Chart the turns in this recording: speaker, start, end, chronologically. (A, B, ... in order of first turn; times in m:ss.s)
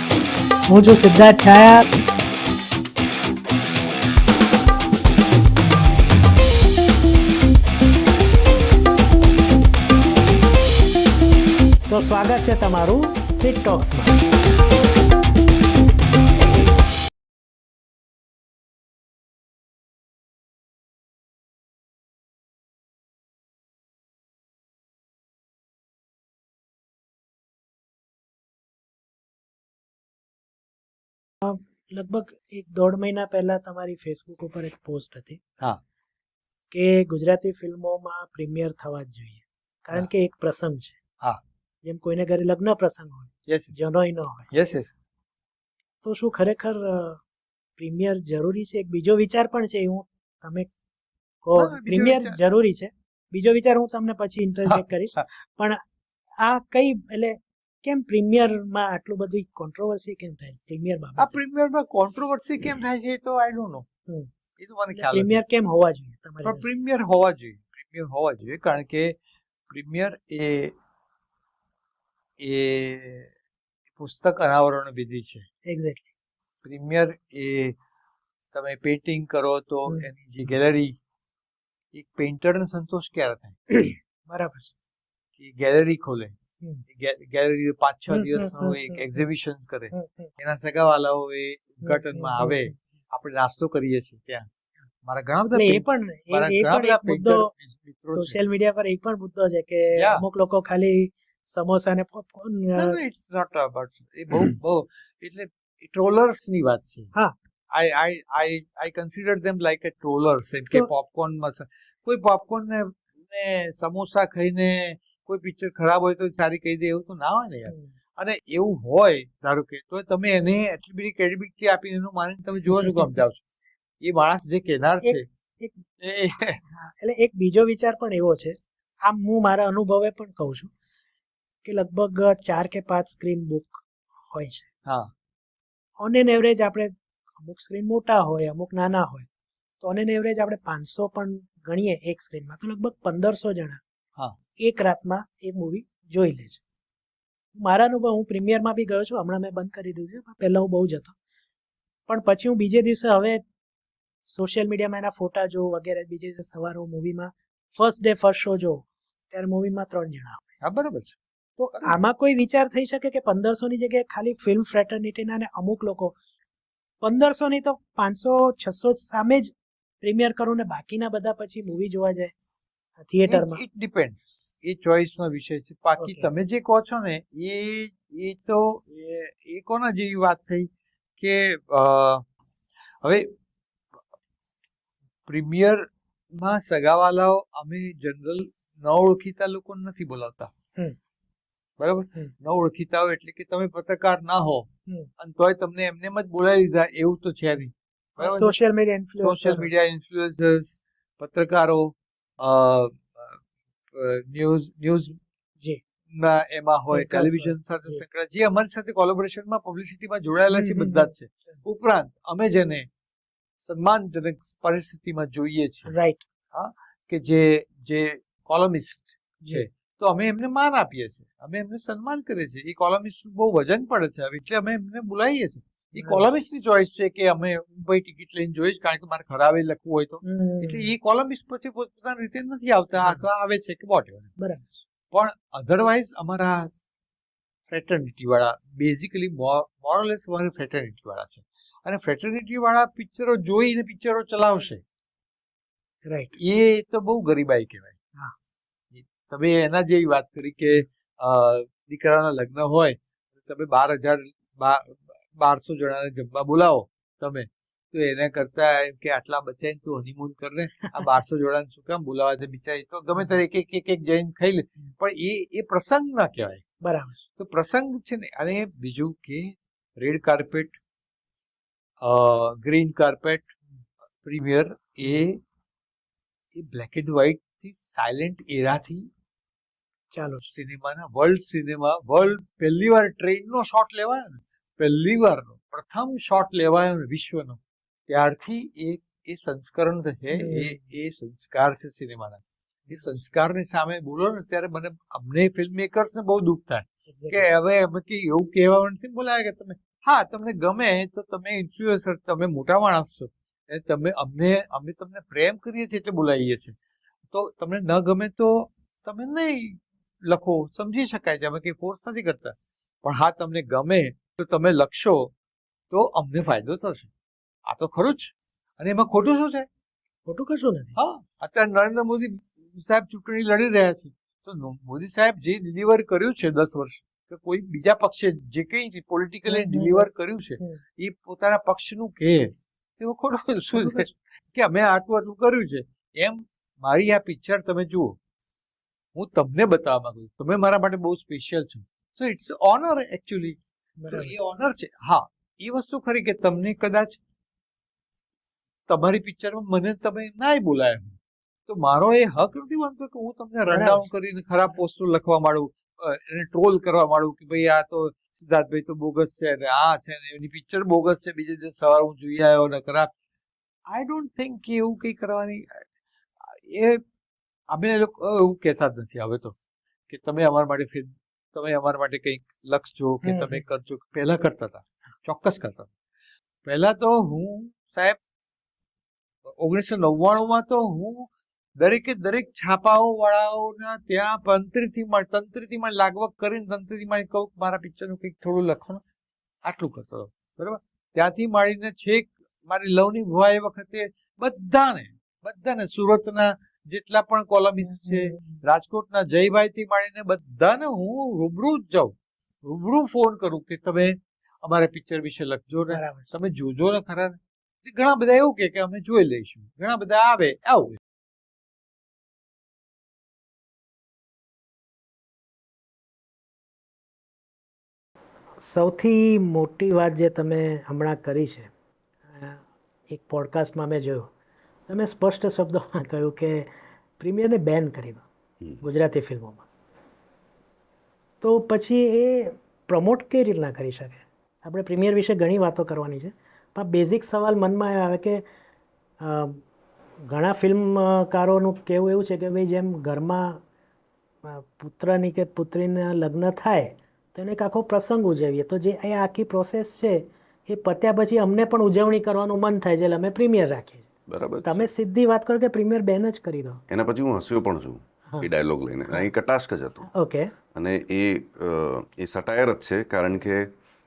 0:00.7-0:01.9 A
0:11.9-0:14.2 A
0:31.4-0:35.4 A
0:36.7-0:41.0 A
0:41.8-0:44.5 A
0:43.5-0:43.8 B
0:44.5-0:44.9 B
0:46.0-0:47.2 A
0:47.8-0:50.7 A
0:51.4-0:55.8 A
0:51.6-0:52.4 B
0:54.7-0:55.2 B
0:56.4-1:01.4 A
1:01.2-1:03.9 B
1:04.6-1:05.4 B
1:04.9-1:06.7 A
1:06.4-1:09.2 B
1:09.7-1:10.8 B
1:12.4-1:13.3 B
1:14.0-1:15.4 B
1:15.7-1:16.1 A
1:16.6-1:17.8 B
1:18.5-1:21.0 B
1:21.9-1:23.8 B
1:23.7-1:24.7 A
1:25.4-1:26.4 B
1:26.9-1:34.5 B
1:28.1-1:29.0 A
1:29.9-1:30.3 A
1:31.8-1:32.7 A
1:35.0-1:38.4 B
1:35.5-1:37.5 A
1:38.1-1:43.0 A
1:40.0-1:40.2 B
1:42.8-1:47.1 B
1:47.7-2:03.4 B
2:02.8-2:03.1 A
2:04.0-2:05.2 B
2:05.0-2:05.8 A
2:06.0-2:06.6 B
2:06.7-2:10.7 A
2:11.6-2:14.7 A
2:14.9-2:15.1 B
2:16.0-2:19.3 A
2:19.8-2:23.8 A
2:24.6-2:26.6 A
2:27.6-2:31.1 A
2:32.1-2:33.4 A
2:34.3-2:40.4 A
2:40.6-2:41.2 B
2:41.6-2:46.2 A
2:47.0-2:52.3 A
2:53.1-2:53.6 A
2:53.3-3:02.2 B
2:56.0-2:56.3 A
3:03.0-3:03.3 B
3:05.3-3:10.5 B
3:11.8-3:18.6 B
3:18.2-3:19.7 A
3:19.2-3:23.4 B
3:23.9-3:25.2 B
3:26.1-3:32.9 B
3:26.9-3:28.0 A
3:30.5-3:31.1 A
3:33.6-3:35.9 B
3:35.9-3:36.2 A
3:36.5-3:54.3 B
3:46.0-3:46.2 A
3:50.2-3:50.9 A
3:54.4-3:54.8 A
3:55.1-3:56.7 B
3:57.7-4:04.8 B
4:06.1-4:06.3 A
4:06.3-4:08.0 B
4:08.9-4:26.6 B
4:26.8-4:27.2 A
4:27.4-4:30.8 B
4:32.0-4:33.5 B
4:34.2-4:35.4 B
4:36.6-4:39.1 B
4:40.1-4:40.5 A
4:40.4-5:06.8 B
4:50.3-4:50.8 A
4:57.1-4:57.5 A
5:07.3-5:15.3 B
5:15.9-5:17.1 B
5:17.7-5:19.7 B
5:20.3-5:21.0 A
5:21.0-5:38.2 B
5:29.5-5:30.1 A
5:33.8-5:34.1 A
5:39.2-5:43.6 B
5:44.0-5:44.4 A
5:44.1-5:47.2 B
5:48.9-6:03.1 B
5:53.7-5:54.1 A
6:03.9-6:05.9 B
6:06.4-6:07.0 B
6:07.7-6:09.6 B
6:10.1-6:15.9 B
6:13.2-6:13.6 A
6:16.6-6:18.2 B
6:19.5-6:29.0 B
6:29.6-6:51.0 B
6:37.9-6:38.6 A
6:45.9-6:46.3 A
6:58.6-7:01.7 A
7:02.3-7:04.3 A
7:04.9-7:08.3 A
7:08.8-7:09.7 A
7:11.4-7:18.4 A
7:19.2-7:19.6 A
7:20.3-7:23.6 A
7:24.4-7:34.1 A
7:34.3-7:34.9 C
7:34.6-7:36.8 A
7:36.9-7:40.1 C
7:40.1-7:40.5 A
7:40.7-7:43.7 C